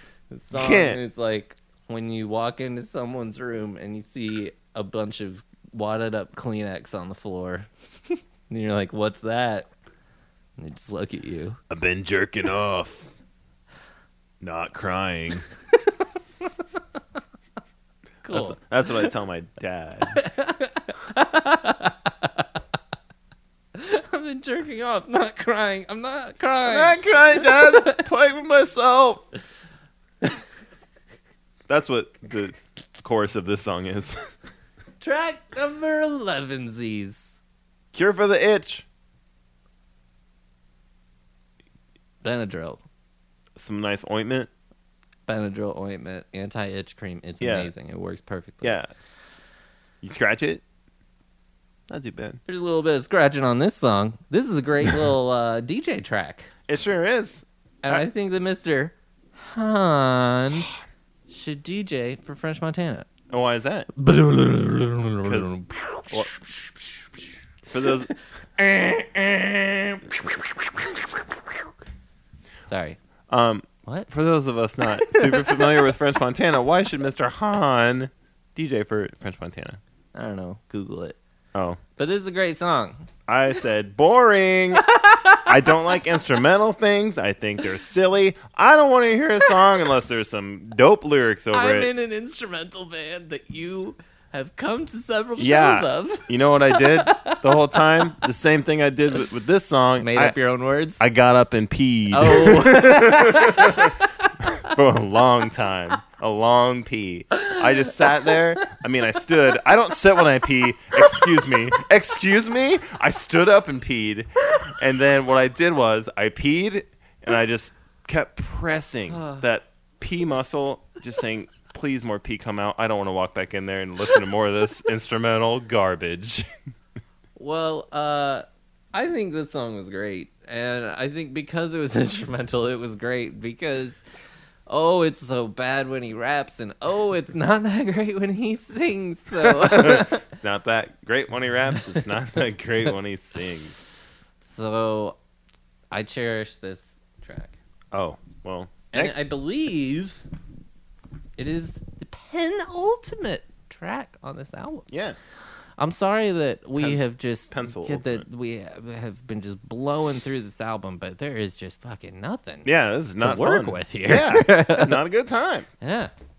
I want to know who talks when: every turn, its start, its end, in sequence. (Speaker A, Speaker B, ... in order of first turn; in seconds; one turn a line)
Speaker A: 0.3-9.7
Speaker B: 0.5-1.0
Speaker A: 10.6-11.6
Speaker B: 11.7-13.1
Speaker B: 14.4-15.5
Speaker A: 15.7-16.8
Speaker A: 18.2-19.1
Speaker B: 18.3-20.2
Speaker A: 20.1-22.5
Speaker A: 23.7-28.0
Speaker B: 26.6-29.2
Speaker B: 31.7-34.2
Speaker A: 35.0-37.4
Speaker B: 37.9-38.9
Speaker A: 42.2-42.8
Speaker B: 43.6-44.5
Speaker A: 45.3-48.8
Speaker B: 47.4-47.7
Speaker B: 48.6-48.9
Speaker B: 50.0-50.6
Speaker B: 51.9-52.4
Speaker A: 52.5-56.5
Speaker B: 56.7-58.0
Speaker A: 57.8-60.7
Speaker A: 61.3-63.1
Speaker B: 63.3-63.9
Speaker A: 63.9-67.0
Speaker B: 65.2-65.5
Speaker B: 67.7-68.1
Speaker A: 68.6-71.2
Speaker A: 72.7-73.0
Speaker B: 73.3-79.8
Speaker A: 73.8-74.1
Speaker A: 74.9-75.8
Speaker A: 80.1-81.2
Speaker B: 81.5-81.8
Speaker A: 82.0-83.1
Speaker B: 83.3-84.8
Speaker A: 84.8-86.0
Speaker B: 85.4-91.9
Speaker A: 91.5-98.2
Speaker B: 95.4-100.3
Speaker A: 100.0-101.0
Speaker B: 101.0-104.0
Speaker A: 102.1-104.7
Speaker B: 104.6-126.5
Speaker A: 107.5-108.4
Speaker A: 110.9-111.5
Speaker A: 119.1-119.4
Speaker A: 127.3-134.0
Speaker A: 134.7-140.2
Speaker B: 139.4-143.8
Speaker A: 144.4-145.2
Speaker A: 145.9-147.5
Speaker B: 147.9-149.2
Speaker A: 148.9-150.2
Speaker A: 151.4-154.8
Speaker B: 154.9-155.2
Speaker A: 155.8-162.7
Speaker B: 156.8-158.2
Speaker B: 162.6-165.7
Speaker A: 163.2-165.0
Speaker A: 165.8-166.1